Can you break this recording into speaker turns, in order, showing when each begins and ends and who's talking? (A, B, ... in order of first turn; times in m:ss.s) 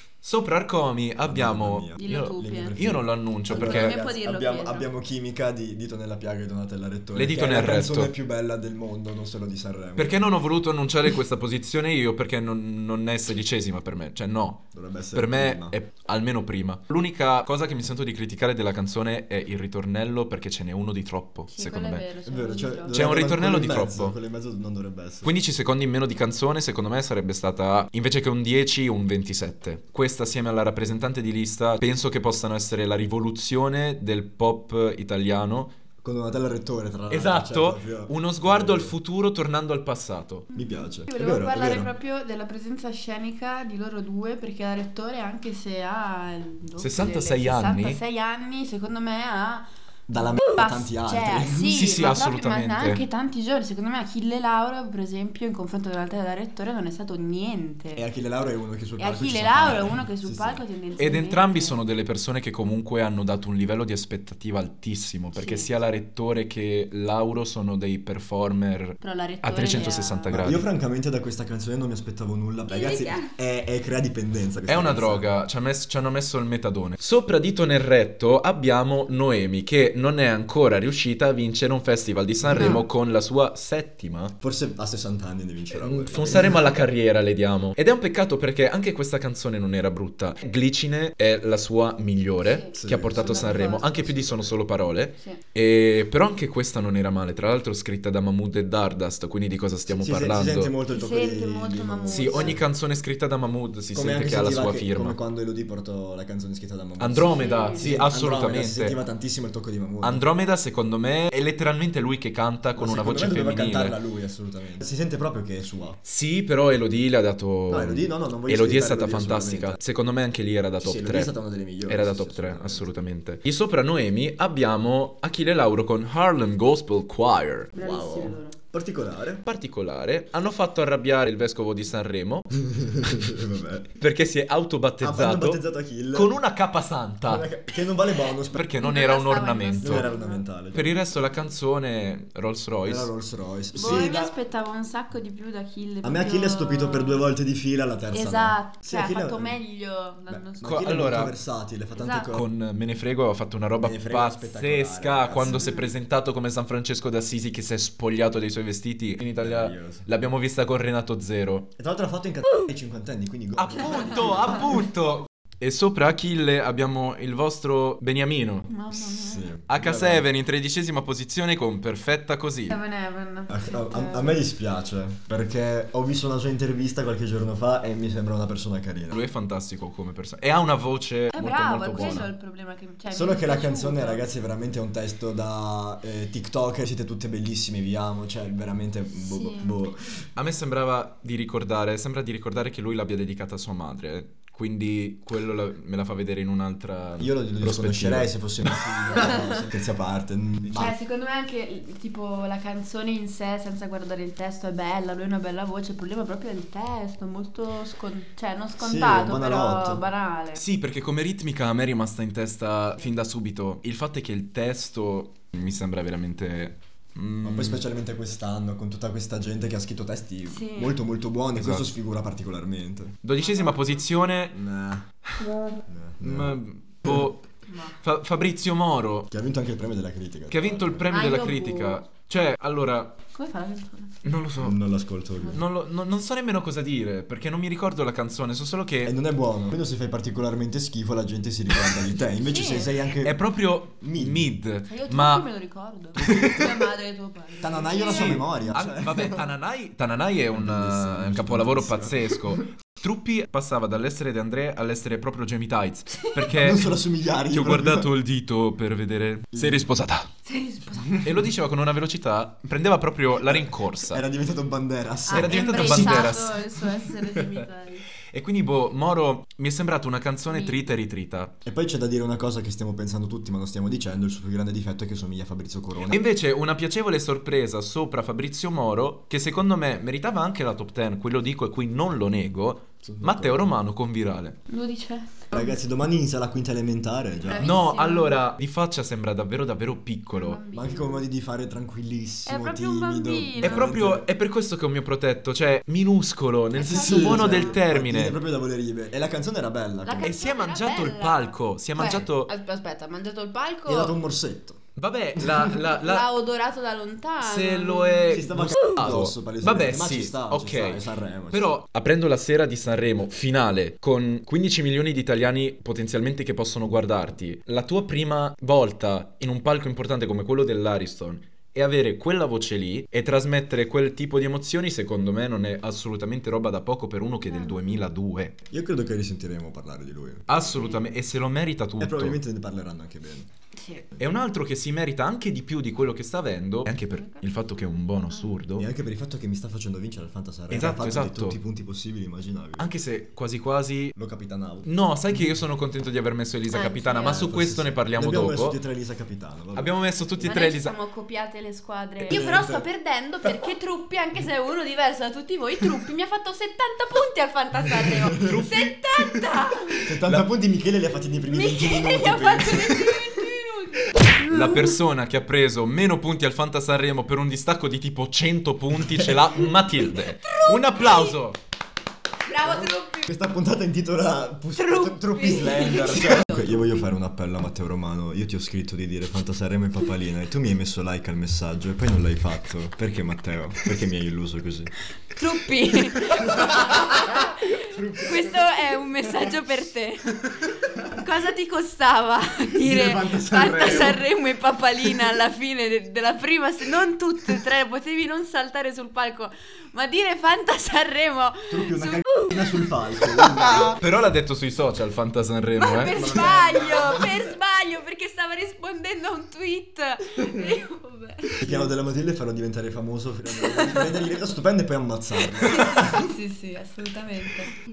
0:00.2-0:04.0 A
0:01.2-0:10.3 B
0:02.0-0:02.8 C
0:03.5-0:04.9 C
0:07.2-0:08.1 A
0:10.0-0:22.1 A
0:14.7-0:15.8 B
0:21.5-0:23.0 C
0:22.3-0:25.3 B
0:22.9-0:24.2 A
0:25.2-0:35.7 A
0:36.0-0:39.0 B
0:37.1-0:40.5 A
0:40.5-0:41.9 B
0:40.5-0:49.7 C
0:46.8-0:48.0 A
0:50.1-0:51.8 B
0:50.2-0:58.0 C
0:51.7-0:53.0 A
0:58.0-1:00.6 B
0:59.0-1:01.8 C
1:01.0-1:10.7 A
1:05.4-1:05.7 C
1:09.0-1:10.4 C
1:10.3-1:15.3 B
1:12.7-1:13.3 C
1:14.7-1:24.4 A
1:22.4-1:22.8 B
1:22.6-1:22.8 C
1:24.4-1:26.8 B
1:25.7-1:40.7 A
1:32.4-1:34.0 C
1:32.7-1:34.6 B
1:39.9-1:42.6 B
1:40.9-1:42.6 C
1:42.1-1:45.2 A
1:43.9-1:50.3 B
1:47.0-1:49.0 A
1:47.2-1:47.8 C
1:50.0-1:54.0 A
1:52.8-1:56.0 B
1:56.0-2:01.3 A
1:57.7-1:59.8 B
2:00.8-2:02.9 B
2:01.8-2:07.7 A
2:07.7-2:08.6 C
2:07.8-2:09.4 B
2:09.4-2:12.5 A
2:12.6-2:13.9 B
2:14.0-2:15.6 A
2:15.0-2:16.4 B
2:16.1-2:17.5 A
2:17.3-2:18.7 B
2:18.5-2:20.1 A
2:18.8-2:20.4 C
2:19.8-2:20.9 B
2:20.7-2:23.1 A
2:22.8-2:24.3 B
2:23.8-2:27.3 C
2:26.0-2:29.6 B
2:28.1-2:30.8 C
2:30.3-2:32.5 B
2:30.6-2:31.3 A
2:32.0-2:32.3 C
2:32.3-2:41.7 A
2:33.8-2:35.8 B
2:35.4-2:35.9 C
2:39.4-2:40.1 B
2:41.8-2:44.8 B
2:43.6-2:48.7 A
2:48.7-2:49.5 C
2:49.1-2:50.3 B
2:49.7-2:52.8 A
2:52.7-2:54.4 C
2:53.5-2:59.2 B
2:59.1-3:02.3 A
3:01.3-3:04.2 C
3:03.1-3:10.2 B
3:09.2-3:09.8 C
3:10.4-3:18.3 A
3:17.2-3:21.0 B
3:19.1-3:19.7 C
3:20.8-3:30.6 C
3:28.8-3:30.0 B
3:30.6-3:37.8 A
3:37.4-3:43.2 B
3:40.5-3:41.0 C
3:41.6-3:41.9 A
3:43.2-3:44.6 A
3:43.4-3:44.1 C
3:44.5-3:45.1 B
3:45.9-3:47.2 B
3:46.2-3:47.5 A
3:47.7-3:48.0 C
3:48.0-3:49.3 A
3:49.3-3:51.1 B
3:50.5-3:53.2 A
3:51.1-3:52.0 C
3:53.3-3:54.2 C
3:54.2-3:54.8 A
3:54.6-3:55.6 B
3:55.5-3:59.2 A
3:59.0-4:03.4 B
4:02.4-4:03.0 C
4:03.2-4:05.5 A
4:04.0-4:04.5 B
4:04.9-4:08.5 C
4:06.2-4:06.9 B
4:06.2-4:06.6 A
4:07.6-4:09.4 B
4:08.0-4:17.0 A
4:10.5-4:12.6 B
4:16.5-4:18.1 B
4:17.5-4:20.3 A
4:19.5-4:19.9 B
4:20.4-4:21.2 C
4:21.2-4:24.2 A
4:23.4-4:26.5 B
4:25.3-4:28.1 C
4:25.3-4:26.6 A
4:28.3-4:31.6 A
4:30.5-4:30.8 C
4:31.6-4:36.2 B
4:36.1-4:44.6 A
4:43.0-4:43.7 B
4:44.7-4:45.8 C
4:45.5-4:47.8 B
4:47.4-4:48.4 C
4:47.6-4:50.6 A
4:50.3-4:51.3 C
4:50.7-4:54.3 B
4:52.5-4:53.9 C
4:53.6-4:58.4 A
4:56.7-4:57.8 C
4:56.8-5:00.3 B
5:00.0-5:04.2 C
5:00.2-5:02.5 A
5:03.9-5:04.8 B
5:05.0-5:06.3 A
5:05.4-5:05.7 B
5:06.0-5:08.4 C
5:07.4-5:28.6 A
5:08.3-5:11.7 B
5:27.5-5:28.0 C
5:28.7-5:30.5 B
5:30.5-5:32.4 A
5:30.6-5:31.1 C
5:32.0-5:33.5 B
5:33.8-5:34.1 C
5:34.2-5:38.9 A
5:36.9-5:38.5 C
5:38.8-5:42.9 B
5:40.7-5:41.6 A
5:42.8-5:44.2 A
5:44.2-5:44.9 B
5:44.8-5:48.8 A
5:46.7-5:47.5 C
5:47.2-5:50.0 B
5:49.8-5:51.0 A
5:50.4-6:00.1 C
5:52.2-5:52.9 B
5:58.0-5:58.6 B
5:58.4-5:59.0 A
6:00.0-6:03.4 B
6:01.5-6:05.0 C
6:04.4-6:11.6 A
6:09.1-6:09.4 B
6:10.1-6:11.4 C
6:12.4-6:13.3 C
6:12.6-6:24.9 B
6:14.8-6:17.0 C
6:25.3-6:42.9 C
6:26.4-6:28.9 B
6:32.8-6:34.2 B
6:41.7-6:44.0 B
6:43.8-6:46.3 A
6:45.8-6:51.9 C
6:46.1-6:47.6 B
6:51.6-6:56.3 B
6:53.6-6:54.2 C
6:55.5-6:57.8 C